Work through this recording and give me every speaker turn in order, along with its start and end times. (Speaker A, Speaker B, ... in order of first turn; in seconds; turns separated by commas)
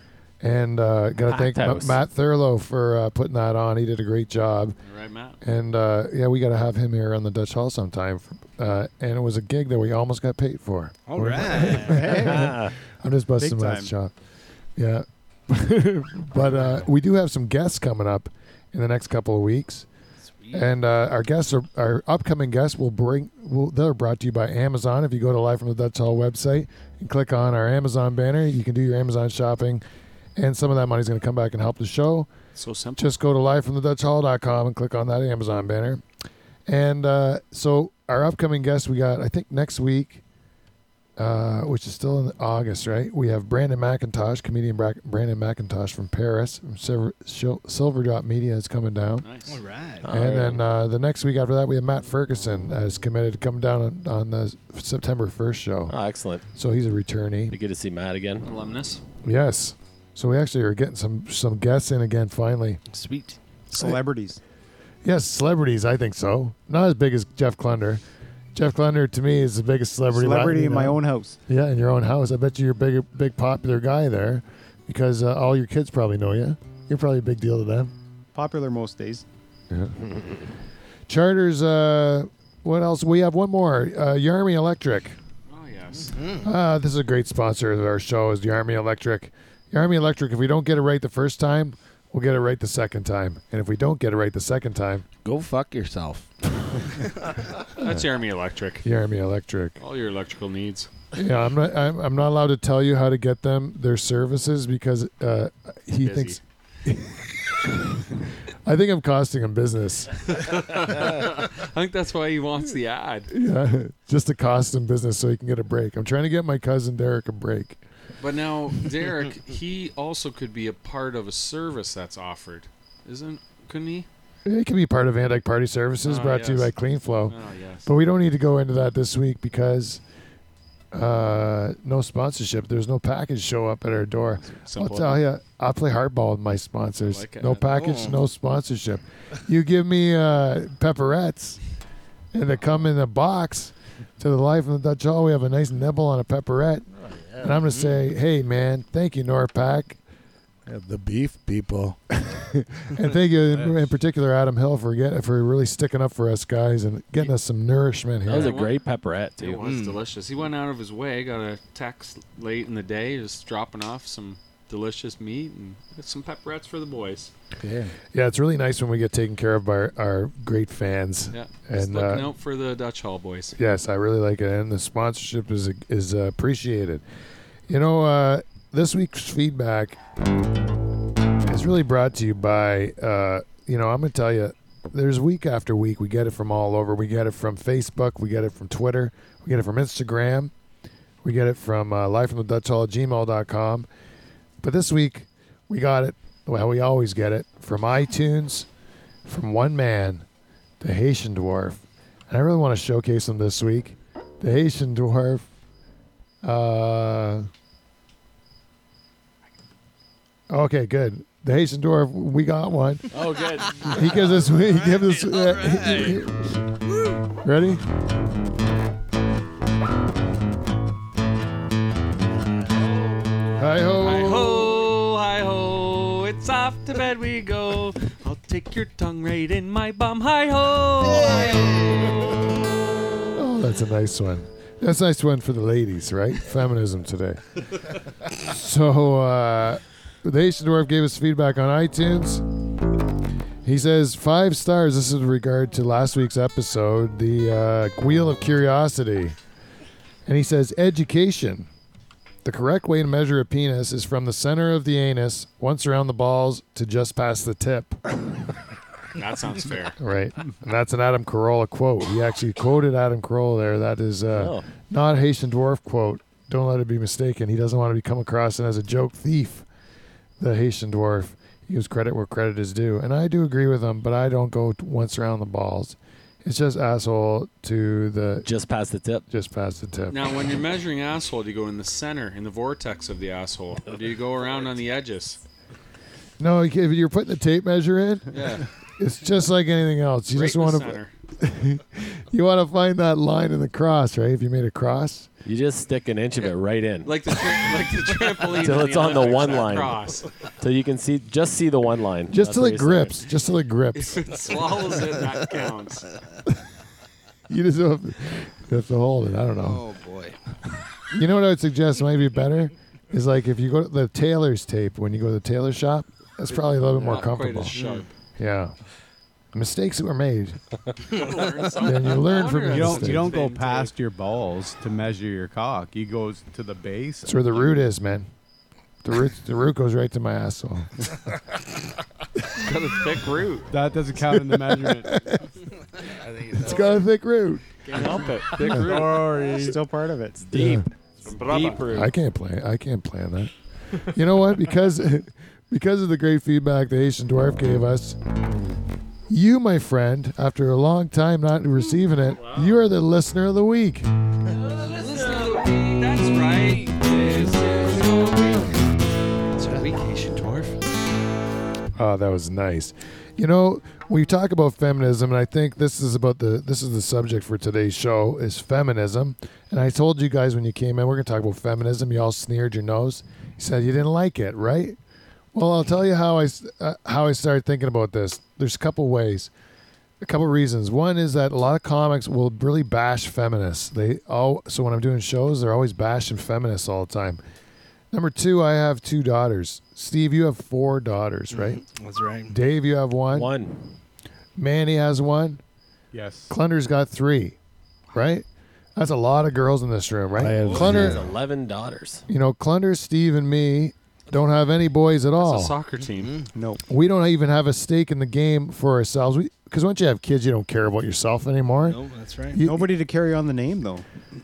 Speaker A: 0.4-4.8, Speaker B: 1.2-2.0, Speaker C: 4.8-5.4, Speaker A: 5.4-14.1, Speaker D: 11.1-12.1, Speaker E: 11.6-12.6, Speaker B: 12.2-12.7, Speaker E: 13.4-13.9, Speaker A: 14.8-19.9, Speaker D: 20.3-20.7, Speaker A: 20.5-29.8, Speaker A: 30.4-32.3, Speaker C: 32.5-33.1, Speaker A: 33.0-36.0, Speaker A: 36.7-40.2, Speaker A: 41.2-49.2, Speaker C: 49.2-49.6, Speaker D: 49.5-50.1, Speaker B: 50.0-50.6, Speaker A: 50.0-55.9, Speaker B: 55.9-56.4, Speaker A: 56.5-57.5, Speaker B: 57.5-58.5, Speaker C: 58.4-59.0, Speaker A: 59.2-62.8, Speaker D: 62.9-63.4, Speaker E: 63.7-64.4, Speaker A: 65.0-68.0, Speaker A: 68.5-77.9, Speaker E: 70.1-71.4, Speaker E: 78.3-79.2, Speaker A: 79.7-80.0, Speaker A: 81.1-85.2, Speaker C: 85.5-86.2, Speaker D: 86.1-86.5, Speaker A: 86.4-95.0, Speaker F: 95.2-96.3, Speaker C: 97.8-98.8, Speaker A: 97.8-98.0, Speaker A: 98.8-99.8, Speaker C: 99.8-100.9, Speaker A: 101.1-108.1, Speaker C: 106.0-106.4, Speaker A: 108.6-110.1, Speaker C: 110.3-113.3, Speaker A: 113.3-117.8, Speaker C: 118.2-124.1, Speaker A: 124.5-130.0, Speaker C: 126.0-127.9, Speaker A: 130.9-141.6, Speaker C: 134.4-135.2, Speaker C: 137.0-137.8, Speaker D: 137.7-138.2, Speaker A: 142.3-146.9, Speaker F: 147.0-147.6, Speaker A: 147.4-150.0, Speaker F: 150.7-152.0, Speaker A: 152.2-158.5, Speaker B: 158.2-159.6, Speaker C: 158.3-158.8, Speaker C: 159.4-167.3, Speaker D: 159.6-160.0, Speaker F: 167.6-167.9, Speaker A: 168.1-172.3, Speaker C: 171.3-173.6, Speaker A: 173.6-177.0, Speaker A: 177.7-180.0, Speaker A: 181.4-190.5, Speaker A: 191.2-193.9, Speaker A: 194.6-198.7, Speaker A: 199.2-200.2, Speaker A: 200.8-205.4, Speaker A: 206.4-207.5, Speaker A: 210.5-213.1, Speaker B: 213.1-214.0, Speaker D: 213.6-216.2, Speaker A: 213.8-216.6, Speaker D: 216.8-217.2, Speaker A: 217.4-217.8, Speaker A: 223.6-224.7, Speaker C: 224.0-232.4, Speaker D: 231.2-232.0, Speaker A: 233.3-237.4, Speaker A: 238.3-242.4, Speaker A: 243.6-249.3, Speaker A: 250.2-251.7, Speaker A: 252.4-258.0, Speaker C: 259.1-260.0, Speaker A: 260.0-269.6, Speaker B: 264.3-264.6, Speaker A: 270.4-278.5, Speaker B: 278.4-279.2, Speaker A: 279.3-280.2, Speaker C: 280.1-285.4, Speaker A: 286.4-295.3, Speaker C: 288.3-288.7, Speaker C: 290.3-291.1, Speaker B: 295.4-297.2, Speaker C: 297.0-300.3, Speaker B: 298.4-303.2, Speaker A: 302.3-304.3, Speaker C: 303.9-306.1, Speaker D: 305.1-305.7, Speaker A: 307.5-309.8, Speaker D: 309.6-310.5, Speaker A: 311.1-317.7, Speaker C: 316.5-318.1, Speaker D: 317.7-318.1, Speaker A: 318.4-318.7, Speaker A: 319.5-320.6, Speaker C: 321.1-323.9, Speaker A: 321.8-323.4, Speaker G: 322.7-327.4, Speaker A: 327.2-328.3, Speaker A: 329.0-331.1, Speaker C: 332.5-333.7, Speaker G: 333.7-335.1, Speaker A: 334.3-335.5, Speaker F: 336.1-337.0, Speaker A: 336.5-337.6, Speaker C: 337.8-339.5, Speaker B: 337.9-338.5, Speaker G: 338.7-339.8, Speaker E: 338.9-340.4, Speaker B: 340.5-340.8, Speaker A: 340.5-340.9, Speaker C: 341.2-342.1, Speaker B: 341.5-341.8, Speaker A: 341.9-348.2, Speaker A: 349.3-354.1, Speaker C: 352.4-352.8, Speaker C: 354.6-358.9, Speaker C: 359.6-360.8, Speaker A: 361.9-375.0, Speaker A: 375.5-379.5, Speaker A: 380.2-387.4, Speaker A: 388.1-391.8, Speaker D: 391.5-392.5, Speaker A: 392.5-393.5, Speaker B: 393.3-393.8, Speaker A: 394.6-395.6, Speaker G: 396.1-396.5, Speaker A: 396.5-397.6, Speaker A: 398.1-401.2, Speaker F: 400.4-401.2, Speaker B: 400.4-402.2, Speaker D: 400.5-401.3, Speaker A: 402.3-405.7, Speaker C: 405.4-406.4, Speaker D: 406.1-406.5, Speaker E: 406.5-406.8, Speaker A: 406.9-412.0, Speaker D: 411.9-412.6, Speaker A: 412.5-412.9, Speaker E: 412.6-414.1